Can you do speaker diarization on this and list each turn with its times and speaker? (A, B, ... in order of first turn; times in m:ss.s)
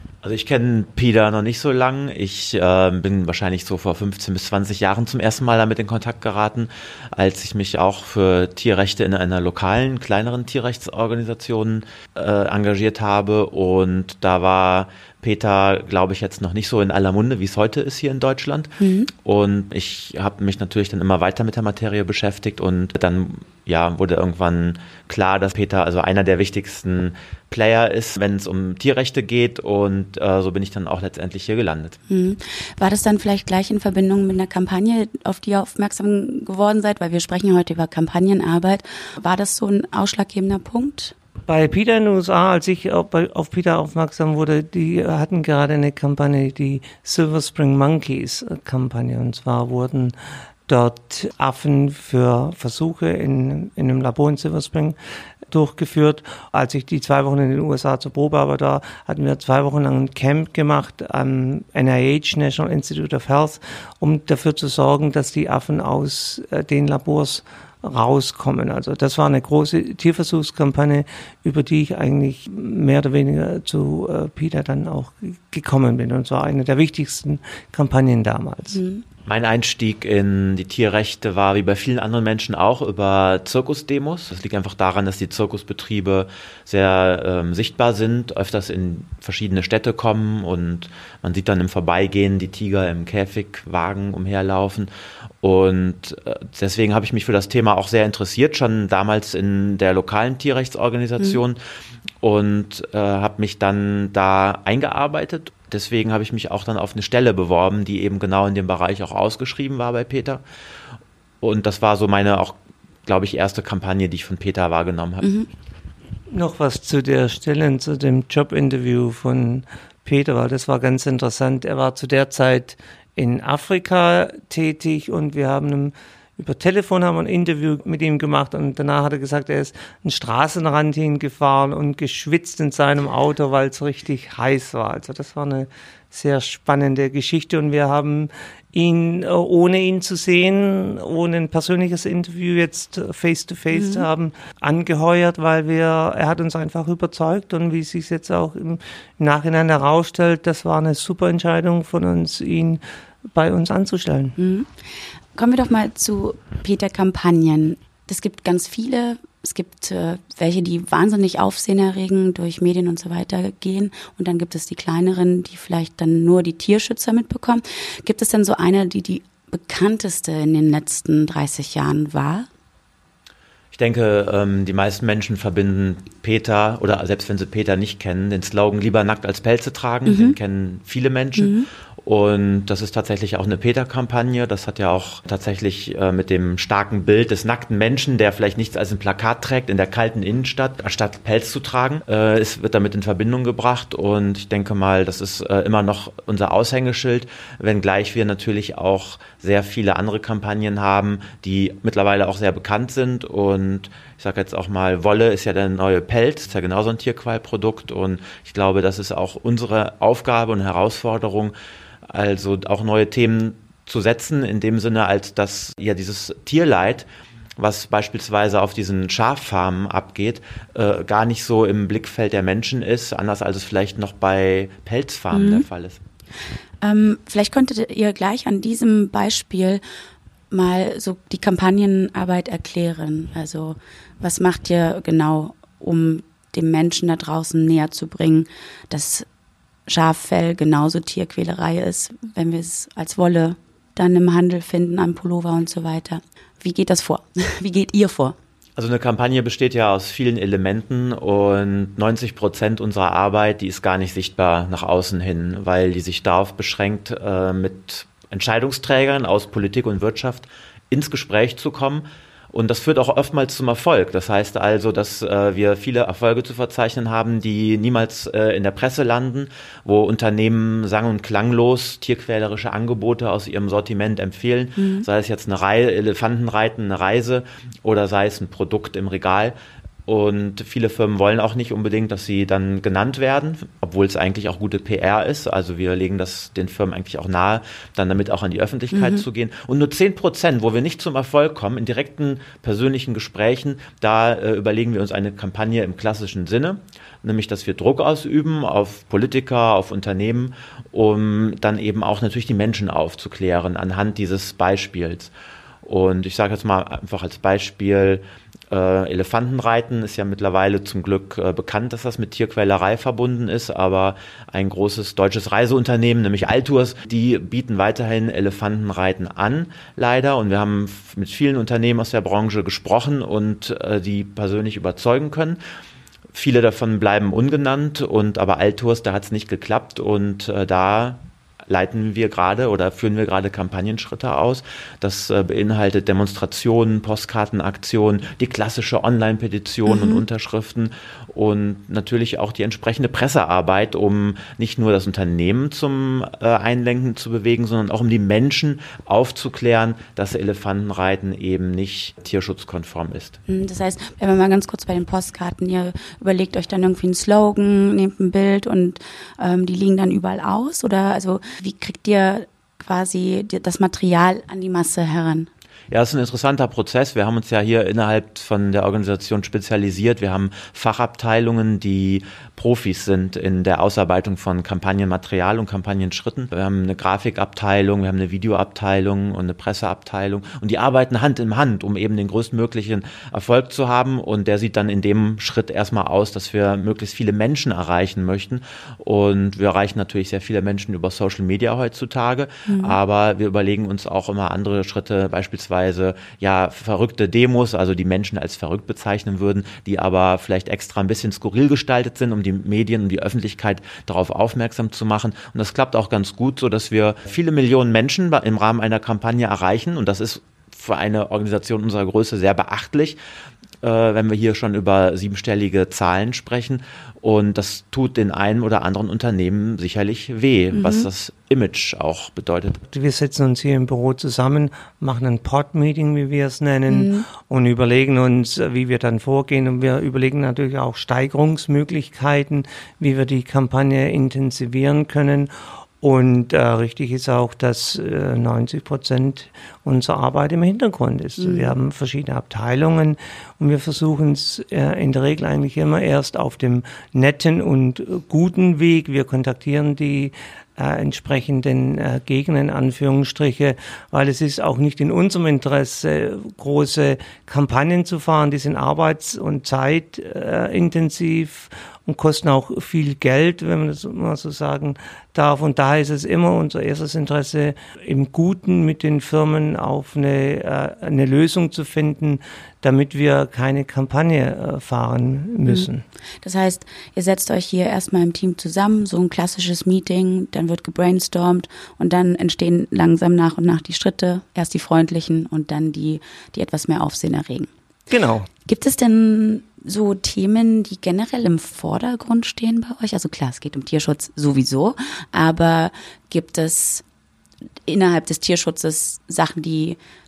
0:00.2-0:32.0 A
0:18.8-0:19.1 B
0:32.1-0:41.2 B
0:41.5-0:50.1 C
0:50.7-0:55.0 C
0:55.5-1:18.8 C
1:18.7-1:19.0 B
1:19.3-1:34.9 A
1:35.4-1:41.6 A
1:42.2-1:50.4 A
1:51.4-1:55.3 A
1:55.2-1:55.5 B
1:56.3-2:34.4 C
2:23.7-2:24.1 B
2:34.4-2:34.7 B
2:35.4-2:52.5 B
2:53.7-3:31.5 A
3:00.0-3:00.4 B
3:01.4-3:01.7 B
3:32.1-3:37.1 A
3:37.6-3:46.0 A
3:45.3-3:45.7 B
3:46.8-3:49.8 B
3:50.5-3:59.3 B
3:59.9-4:08.4 B
4:08.8-4:39.6 A
4:34.8-4:35.1 B
4:40.1-5:05.3 A
4:48.9-4:49.2 B
5:05.8-5:25.6 A
5:26.3-5:53.4 A
5:39.9-5:40.2 B
5:53.5-6:05.5 B
6:05.9-6:53.2 A
6:32.7-6:33.0 B
6:53.8-7:02.8 A
7:00.7-7:01.1 B
7:02.9-7:15.5 C
7:06.9-7:07.3 B
7:16.0-7:56.0 C
7:21.4-7:21.8 B
7:56.4-8:07.7 B
8:08.1-8:08.5 C
8:08.6-8:17.0 B
8:17.9-8:20.0 B